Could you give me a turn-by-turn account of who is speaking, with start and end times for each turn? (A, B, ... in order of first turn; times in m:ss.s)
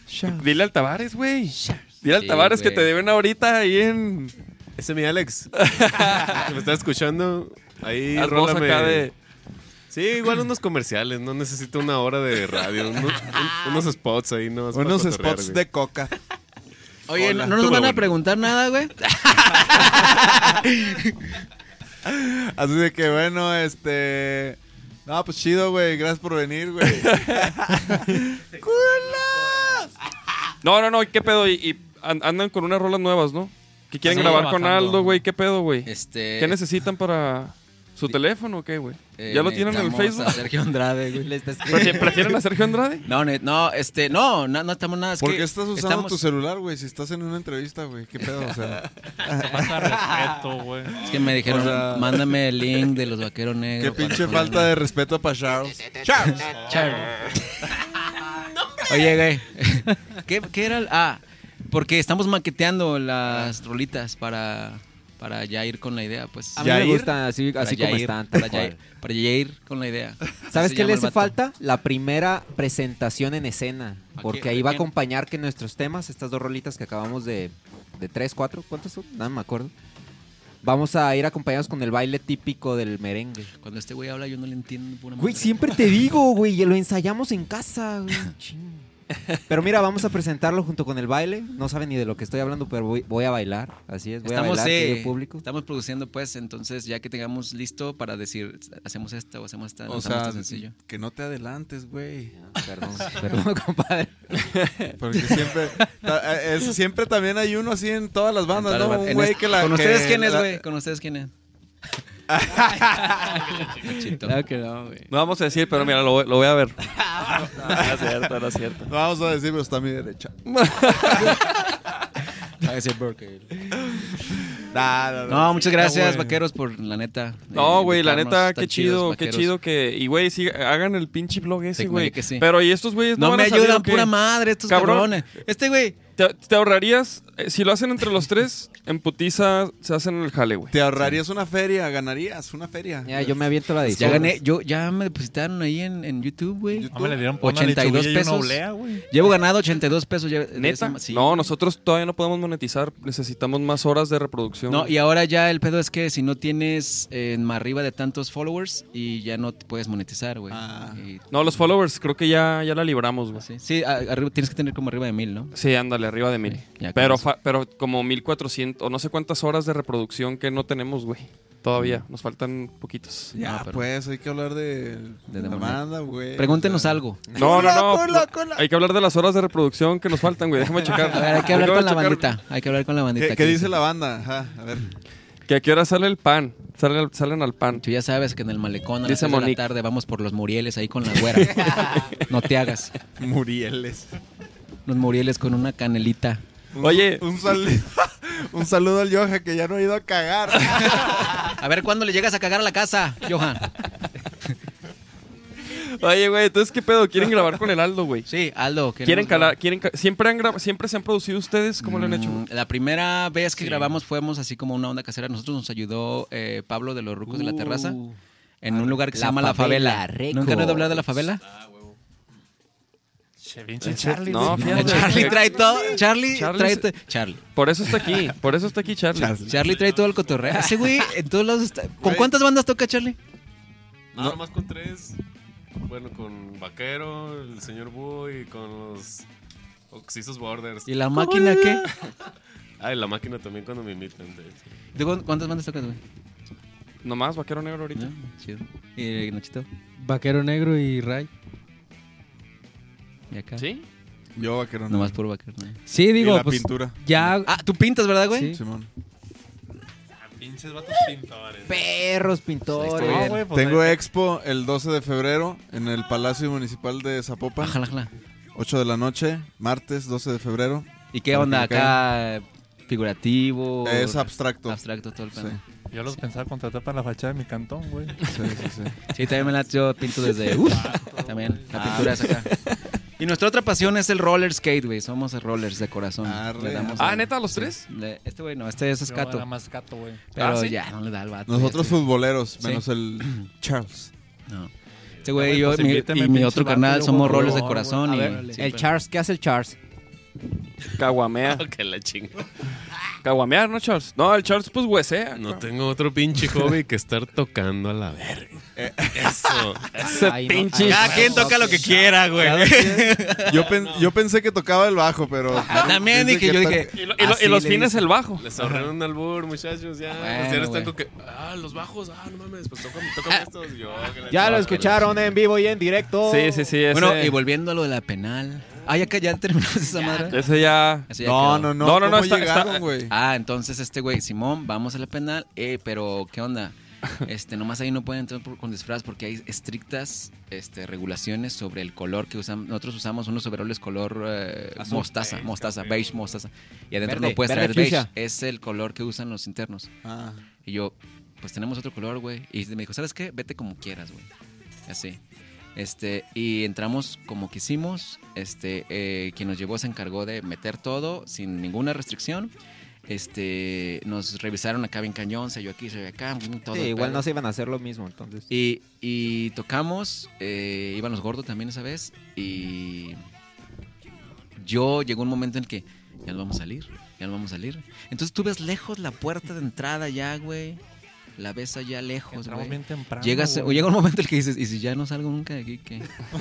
0:00.3-0:04.3 A
0:02.1-0:02.9 B
0:04.8-0:05.6 C
0:05.6-0:06.5 A
0:06.3-0:09.1 C
0:08.1-0:09.1 A
0:09.9-0:15.6 C
0:14.7-0:16.1 D
0:17.1-0:21.4 B
0:17.2-0:17.6 D
0:17.2-0:18.1 C
0:22.0-0:29.9 D
0:27.0-0:27.5 A
0:30.6-0:40.4 A
0:34.0-0:35.2 E
0:34.0-0:34.6 B
0:35.8-0:36.6 B
0:39.2-0:41.3 B
0:41.2-0:42.4 F
0:41.7-0:43.1 A
0:43.1-0:46.2 B
0:45.2-0:50.0 D
0:49.4-0:51.1 E
0:51.0-0:54.8 B
0:51.2-0:52.4 D
0:53.8-0:56.4 D
0:55.9-0:57.1 F
0:56.6-0:57.1 E
0:58.8-1:06.8 B
1:06.6-1:08.8 F
1:06.6-1:07.2 D
1:07.6-1:11.4 B
1:10.5-1:19.7 F
1:14.2-1:14.9 B
1:20.6-1:23.5 F
1:23.6-1:26.0 B
1:25.2-1:28.9 F
1:29.5-1:35.4 F
1:34.2-1:40.7 B
1:39.9-1:42.4 D
1:42.4-1:44.4 F
1:45.0-1:50.6 D
1:48.5-1:51.3 B
1:52.3-1:53.4 D
1:53.5-1:53.8 C
1:53.7-1:54.4 B
1:54.2-1:55.1 G
1:55.1-1:58.9 A
1:57.6-1:58.0 D
1:58.9-2:00.3 D
2:00.5-2:01.7 A
2:00.9-2:01.4 D
2:02.6-2:04.2 B
2:04.5-2:05.9 D
2:05.3-2:09.6 B
2:05.8-2:06.4 E
2:07.5-2:15.1 A
2:11.8-2:12.5 B
2:13.2-2:16.0 B
2:16.2-2:20.7 A
2:20.7-2:23.4 D
2:23.1-2:24.4 F
2:23.9-2:31.5 B
2:23.9-2:24.2 D
2:26.7-2:27.2 D
2:26.9-2:29.1 E
2:30.5-2:34.9 A
2:34.7-2:41.6 B
2:40.5-2:41.0 D
2:41.3-2:43.5 A
2:43.4-2:45.5 B
2:45.5-2:53.3 A
2:46.5-2:47.2 B
2:53.3-2:58.7 D
2:53.4-2:53.9 B
2:55.3-2:57.3 B
2:57.3-3:02.3 A
3:01.0-3:03.7 B
3:03.2-3:04.9 D
3:05.5-3:07.8 A
3:07.8-3:13.0 B
3:09.0-3:09.6 A
3:11.2-3:12.3 A
3:13.2-3:14.1 D
3:14.9-3:16.4 B
3:16.8-3:21.3 D
3:16.8-3:17.2 A
3:21.3-3:23.7 B
3:25.7-3:28.3 A
3:28.3-3:29.6 B
3:29.0-3:32.4 A
3:31.8-3:38.0 B
3:33.6-3:34.0 A
3:37.3-3:38.2 F
3:38.6-3:41.4 B
3:38.7-3:41.2 F
3:43.4-3:45.5 E
3:43.8-3:47.4 B
3:44.1-3:45.8 A
3:46.3-3:46.9 A
3:47.5-3:49.5 A
3:49.2-3:49.8 D
3:49.4-3:53.2 B
3:49.7-3:50.6 C
3:52.0-3:52.3 D
3:54.1-3:55.2 C
3:55.8-3:59.3 C
3:59.9-4:01.0 C
4:00.9-4:01.9 B
4:02.8-4:04.7 C
4:05.0-4:06.0 B
4:07.0-4:08.1 A
4:07.9-4:09.7 B
4:10.0-4:11.3 G
4:13.3-4:13.7 B
4:13.6-4:13.9 A
4:14.4-4:15.2 D
4:14.9-4:15.8 B
4:15.9-4:17.6 G
4:16.1-4:17.0 D
4:17.4-4:18.6 B
4:18.3-4:18.6 G
4:18.5-4:18.9 D
4:20.3-4:21.9 E
4:21.7-4:23.4 F
4:22.7-4:23.4 B
4:22.9-4:24.0 E
4:23.5-4:27.8 D
4:27.6-4:28.1 B
4:28.6-4:32.0 D
4:31.1-4:36.2 B
4:33.8-4:34.8 D
4:35.3-4:35.6 D
4:35.9-4:38.2 E
4:38.2-4:39.0 D
4:39.1-4:42.5 B
4:40.6-4:42.0 E
4:41.8-4:42.1 D
4:42.0-4:42.7 A
4:43.2-4:49.5 B
4:46.2-4:47.2 D
4:47.0-4:47.8 A
4:49.1-4:50.3 E
4:50.3-4:52.1 B
4:50.4-4:50.8 A
4:51.5-4:54.1 D
4:52.6-4:53.5 B
4:55.2-4:58.9 B
4:55.3-4:58.4 E
4:58.0-4:58.6 G
4:58.5-4:59.8 F
5:01.0-5:01.6 A
5:01.5-5:02.5 C
5:03.2-5:05.6 A
5:05.3-5:08.6 C
5:08.8-5:09.7 D
5:09.1-5:10.0 C
5:09.9-5:11.5 A
5:10.0-5:13.1 F
5:10.8-5:13.8 B
5:13.4-5:17.0 D
5:13.7-5:14.1 C
5:15.7-5:18.1 B
5:17.0-5:18.4 A
5:18.4-5:25.1 C
5:20.2-5:20.9 B
5:24.3-5:26.7 F
5:24.4-5:25.2 B
5:26.2-5:27.4 A
5:26.9-5:30.5 B
5:30.3-5:31.1 A
5:31.1-5:31.8 B
5:31.2-5:33.1 D
5:31.8-5:32.9 A
5:33.1-5:49.9 B
5:45.2-5:46.0 E
5:47.0-5:48.1 F
5:50.0-5:50.4 D
5:50.6-5:54.3 B
5:54.9-5:55.2 B
5:55.8-6:02.5 B
6:03.1-6:07.3 B
6:06.7-6:08.5 F
6:08.5-6:13.2 B
6:14.6-6:20.8 B
6:21.4-6:26.1 B
6:22.3-6:23.9 E